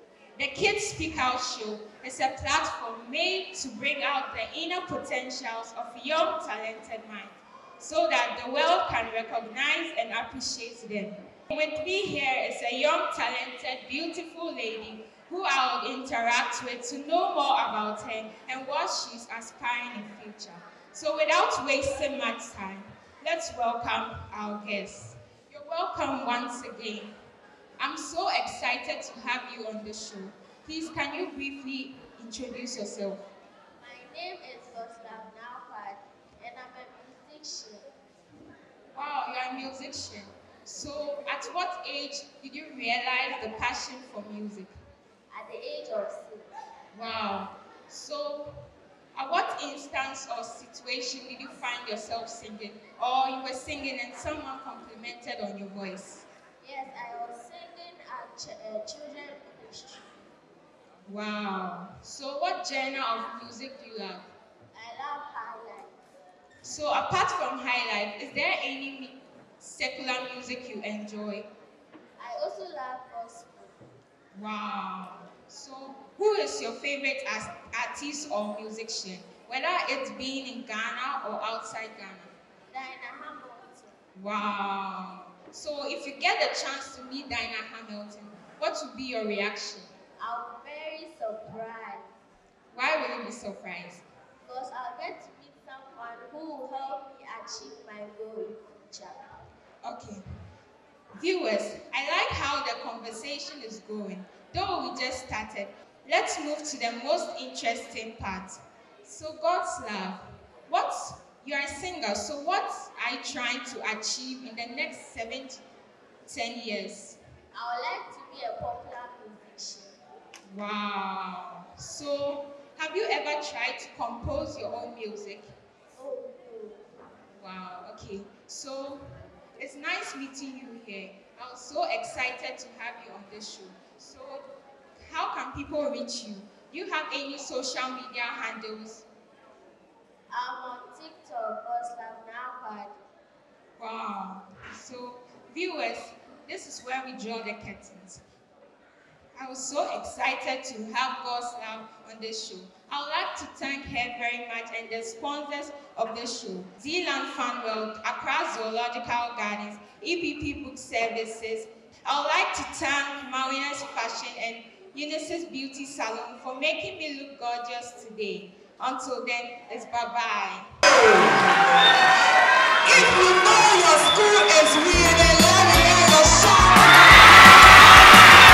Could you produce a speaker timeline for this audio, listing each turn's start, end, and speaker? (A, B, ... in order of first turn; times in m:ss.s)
0:00.3-0:27.1 A
0:27.8-0:33.2 A
0:33.8-0:37.9 B
0:38.9-0:44.7 A
0:45.3-0:46.5 B
0:46.9-0:48.5 A
0:49.1-0:56.2 A
0:56.6-1:00.2 B
1:01.0-1:04.3 A
1:04.7-1:05.9 B
1:06.6-1:11.5 A
1:12.2-1:13.8 B
1:14.3-1:22.3 A
1:22.7-1:24.0 B
1:24.2-1:29.9 A
1:30.2-1:32.0 B
1:32.7-1:34.0 A
1:34.4-1:39.3 B
1:39.8-1:40.2 A
1:41.2-1:55.6 A
1:56.2-1:57.2 A
1:57.5-2:00.0 B
2:00.5-2:05.5 A
2:05.9-2:06.8 B
2:07.3-2:09.0 A
2:09.6-2:14.4 A
2:15.0-2:19.0 A
2:20.3-2:22.9 B
2:23.8-2:28.2 A
2:29.4-2:50.7 A
2:50.9-2:51.6 C
2:52.8-2:57.0 C